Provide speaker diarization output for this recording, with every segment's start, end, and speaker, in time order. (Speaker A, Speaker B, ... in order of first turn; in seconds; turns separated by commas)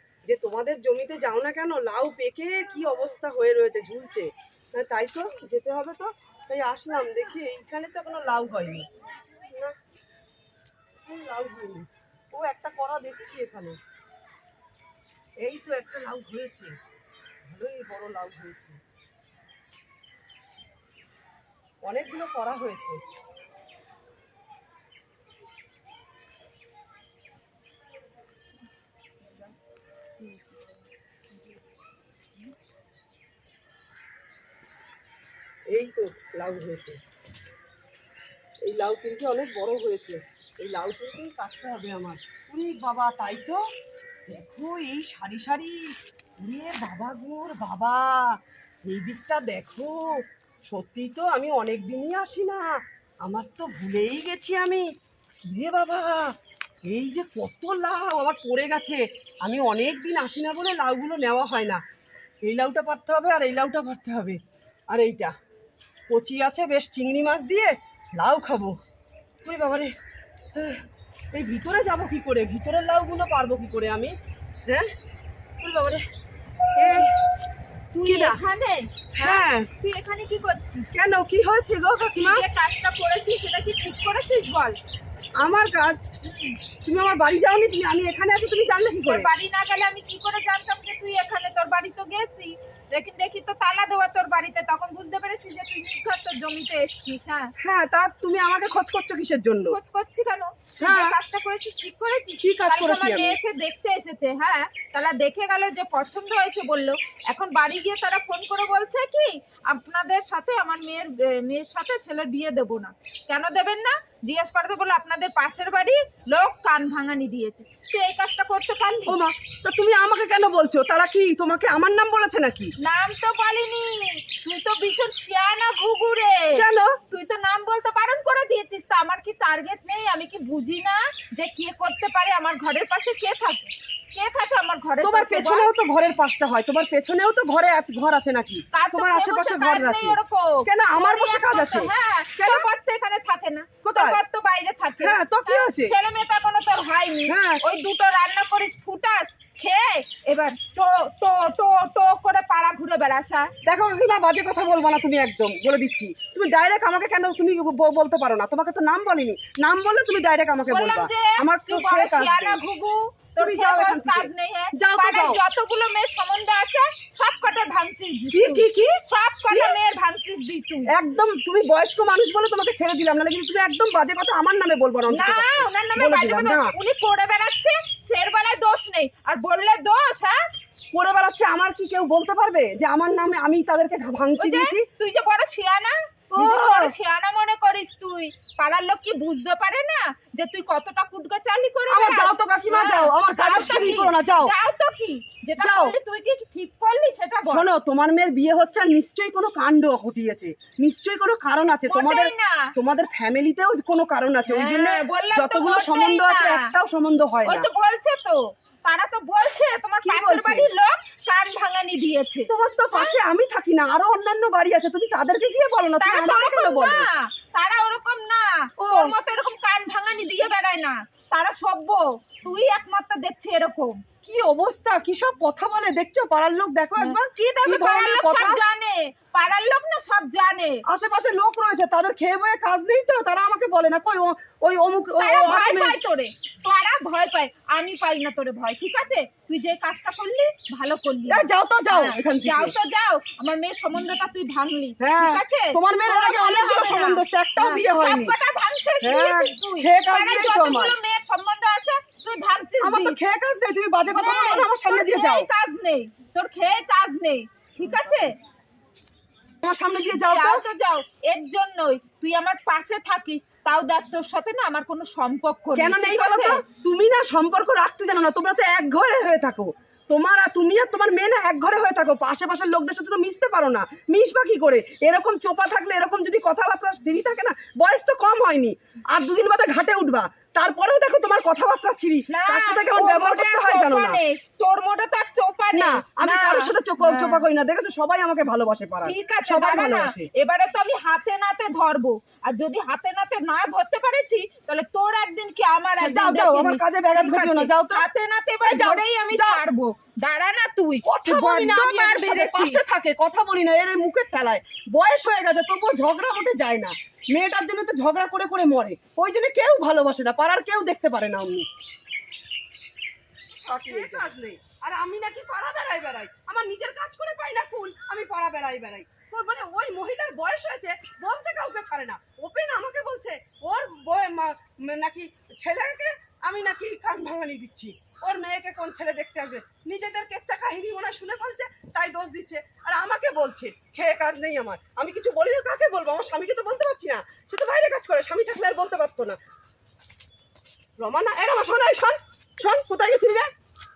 Speaker A: 0.3-8.8, Speaker A: 11.1-13.8, Speaker A: 15.4-16.7, Speaker A: 17.5-18.8, Speaker A: 21.8-23.0, Speaker A: 35.7-37.0, Speaker A: 38.6-43.6, Speaker A: 44.3-50.2, Speaker A: 50.7-54.9, Speaker A: 55.4-56.3, Speaker A: 56.9-61.8, Speaker A: 62.4-64.4, Speaker A: 64.9-65.3, Speaker A: 66.1-68.8, Speaker A: 69.4-69.9, Speaker A: 70.5-70.8, Speaker A: 71.3-74.1, Speaker A: 75.6-76.0, Speaker A: 76.8-77.1, Speaker B: 77.9-80.9, Speaker A: 78.0-78.4, Speaker A: 79.2-79.7, Speaker A: 80.9-82.4, Speaker B: 82.2-84.8, Speaker A: 85.4-86.0, Speaker B: 86.2-86.5, Speaker A: 86.8-89.3, Speaker B: 89.1-97.5, Speaker A: 97.6-99.8, Speaker B: 99.7-119.2, Speaker A: 100.8-101.2, Speaker A: 102.4-103.4, Speaker A: 119.0-122.7, Speaker B: 122.8-135.7, Speaker A: 126.5-126.9, Speaker A: 135.0-142.7, Speaker B: 138.7-153.5, Speaker A: 143.8-144.2, Speaker A: 145.0-145.9, Speaker A: 147.3-147.6, Speaker A: 153.6-162.6, Speaker B: 160.7-170.9, Speaker A: 163.4-165.4, Speaker A: 168.3-168.9, Speaker A: 169.5-169.8, Speaker A: 170.9-176.7, Speaker B: 175.1-180.3, Speaker A: 180.9-184.8, Speaker B: 184.4-197.7, Speaker A: 186.3-186.9, Speaker A: 191.9-194.5, Speaker A: 195.6-195.9, Speaker A: 197.5-207.7, Speaker B: 201.9-202.7, Speaker B: 204.5-206.7, Speaker B: 207.4-213.2, Speaker A: 210.0-210.7, Speaker A: 212.5-217.1, Speaker B: 216.0-224.0, Speaker A: 218.8-219.1, Speaker A: 224.2-228.6, Speaker B: 227.0-230.8, Speaker A: 230.9-236.0, Speaker B: 235.2-253.2, Speaker A: 241.3-242.7, Speaker A: 245.0-248.3, Speaker A: 249.0-250.9, Speaker A: 252.8-255.5, Speaker B: 254.1-258.3, Speaker A: 259.6-260.6, Speaker B: 260.3-266.5, Speaker A: 265.7-284.2, Speaker B: 282.3-287.4, Speaker A: 285.7-290.3, Speaker B: 289.0-302.8, Speaker A: 295.9-298.1, Speaker A: 298.6-299.6, Speaker A: 301.0-311.7, Speaker A: 313.6-339.4, Speaker A: 341.0-343.5